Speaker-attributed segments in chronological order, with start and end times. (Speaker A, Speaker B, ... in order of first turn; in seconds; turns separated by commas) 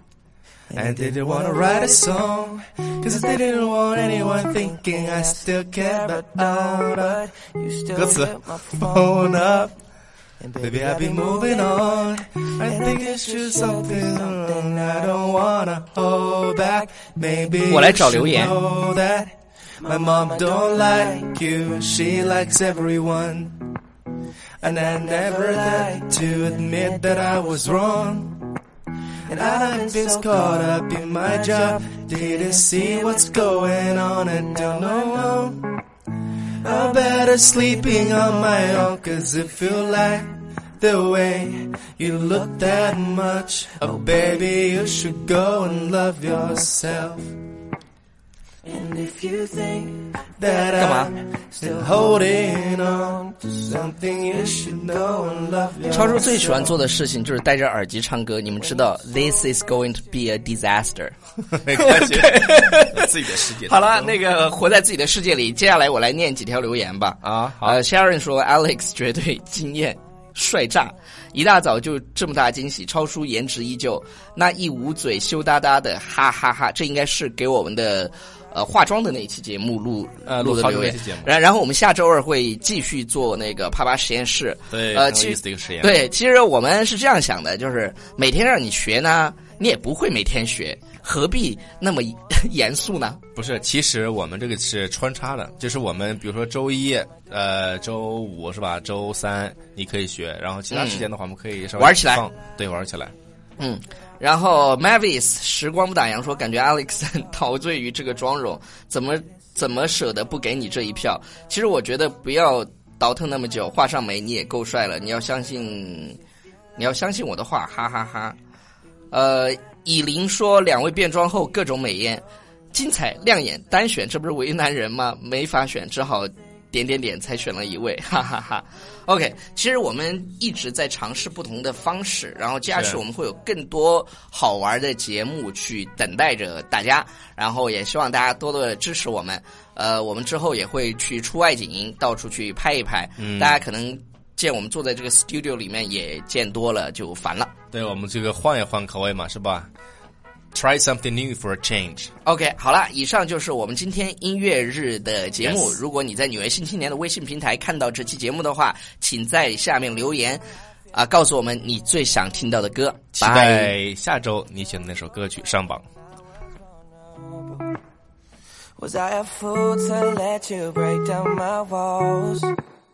Speaker A: 0.7-2.3, Speaker B: 0.7-7.2, Speaker A: 4.4-9.4, Speaker B: 7.9-9.7, Speaker A: 10.4-15.2, Speaker B: 10.6-23.7, Speaker A: 16.9-17.2, Speaker C: 17.7-18.6, Speaker A: 19.9-21.3, Speaker B: 24.6-28.5, Speaker A: 24.9-26.4, Speaker A: 29.3-30.6, Speaker B: 29.3-35.8, Speaker B: 36.6-47.3, Speaker A: 48.6-50.6, Speaker B: 50.4-56.4, Speaker C: 50.8-51.1, Speaker A: 51.5-52.1, Speaker A: 53.0-55.1, Speaker A: 55.8-56.3, Speaker C: 55.9-61.1, Speaker B: 61.5-64.2, Speaker C: 61.7-93.2, Speaker B: 67.2-67.8, Speaker B: 80.3-81.3, Speaker B: 84.7-86.0, Speaker B: 93.4-103.1, Speaker C: 100.7-101.1, Speaker C: 101.8-102.2, Speaker C: 103.6-116.2, Speaker C: 116.8-118.4, Speaker C: 119.1-147.5, Speaker B: 132.7-133.0, Speaker B: 143.2-143.6, Speaker B: 147.7-149.7, Speaker B: 150.5-152.1, Speaker C: 152.2-160.4, Speaker B: 155.4-155.8, Speaker C: 160.9-163.7, Speaker B: 163.2-165.8, Speaker A: 168.8-172.6